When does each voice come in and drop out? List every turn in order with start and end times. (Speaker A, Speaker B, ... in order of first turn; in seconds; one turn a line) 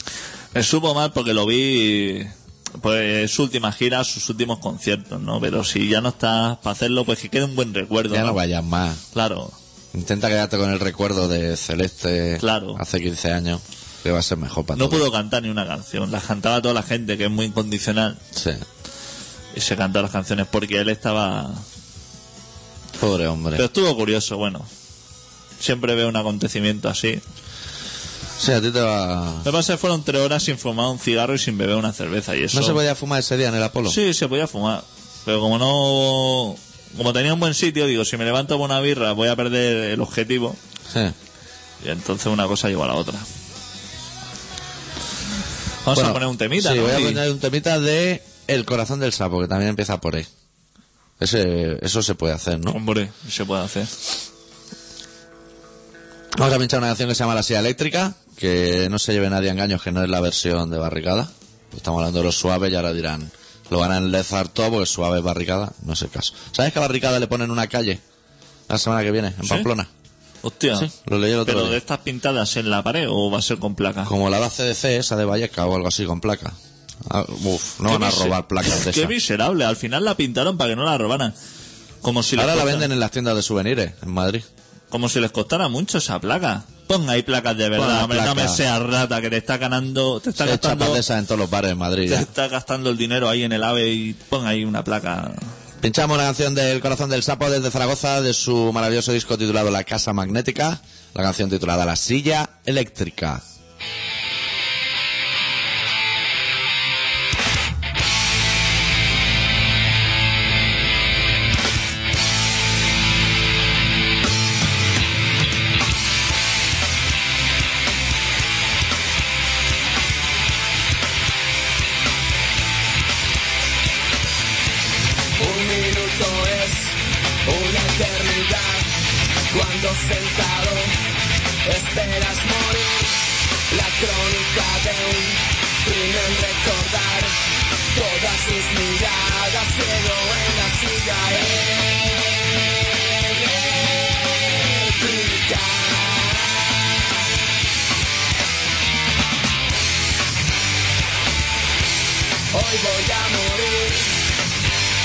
Speaker A: 0.5-8.4
Speaker B: 8.1-9.0
Speaker A: 9.1-9.5
Speaker B: 9.9-15.0
Speaker A: 12.4-12.8
Speaker A: 14.7-18.2
Speaker B: 18.3-18.6
Speaker A: 19.5-21.6
Speaker B: 23.0-23.6
Speaker A: 23.5-24.7
Speaker A: 25.6-27.2
Speaker B: 28.4-29.4
Speaker A: 29.4-32.8
Speaker B: 32.5-34.0
Speaker A: 33.9-40.6
Speaker B: 40.9-41.1
Speaker A: 41.8-43.2
Speaker A: 45.8-47.2
Speaker B: 45.9-50.3
Speaker B: 51.2-52.8
Speaker A: 52.7-53.9
Speaker B: 56.4-68.0
Speaker B: 68.7-69.9
Speaker A: 70.4-70.9
Speaker B: 70.8-71.8
Speaker A: 71.4-74.1
Speaker B: 74.0-79.1
Speaker A: 77.8-81.3
Speaker A: 82.0-82.9
Speaker B: 82.3-84.5
Speaker A: 84.9-91.0
Speaker B: 87.8-88.6
Speaker B: 90.4-92.3
Speaker A: 92.1-95.5
Speaker B: 95.8-103.4
Speaker C: 125.4-128.9
Speaker C: 129.5-131.0
Speaker C: 131.6-137.4
Speaker C: 137.9-146.7
Speaker C: 152.5-154.2